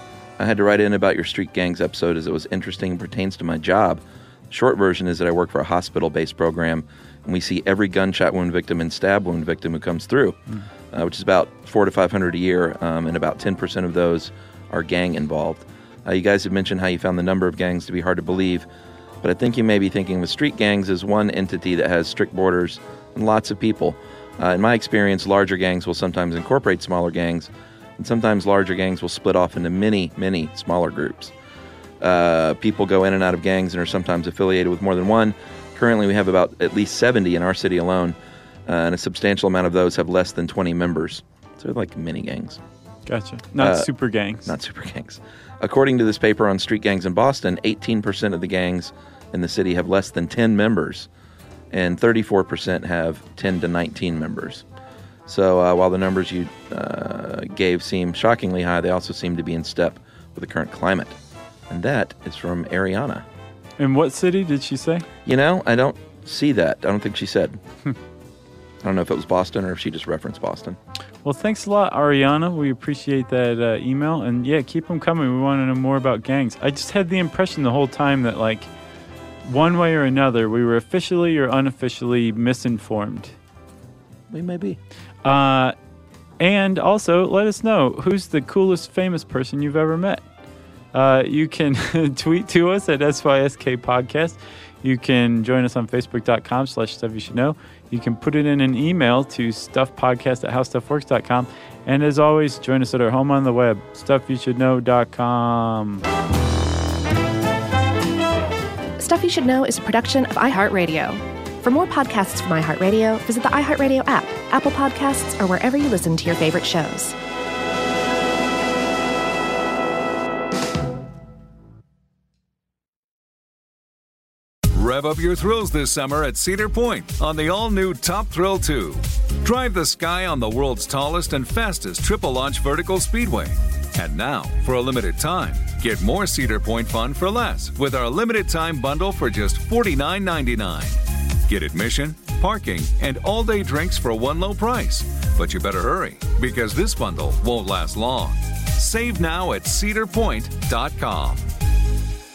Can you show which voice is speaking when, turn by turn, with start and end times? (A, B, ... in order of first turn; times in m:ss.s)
0:00.4-0:10.4 A
0:10.9-0:18.7 A
0:19.2-0:31.3 A
0:32.0-0:42.6 A
0:43.1-0:44.5 B
0:43.6-0:43.9 A
0:44.4-0:51.1 A
0:51.7-0:54.6 A
0:55.3-1:01.2 A
1:01.7-1:03.2 A
1:03.8-1:05.1 B
1:05.2-1:07.6 A
1:08.8-1:10.8 A
1:11.2-1:18.7 B
1:19.4-1:23.3 B
1:24.3-1:24.8 A
1:25.2-1:25.8 B
1:26.4-1:30.2 B
1:30.9-1:46.0 B
1:49.0-1:57.2 C
2:04.7-2:31.5 D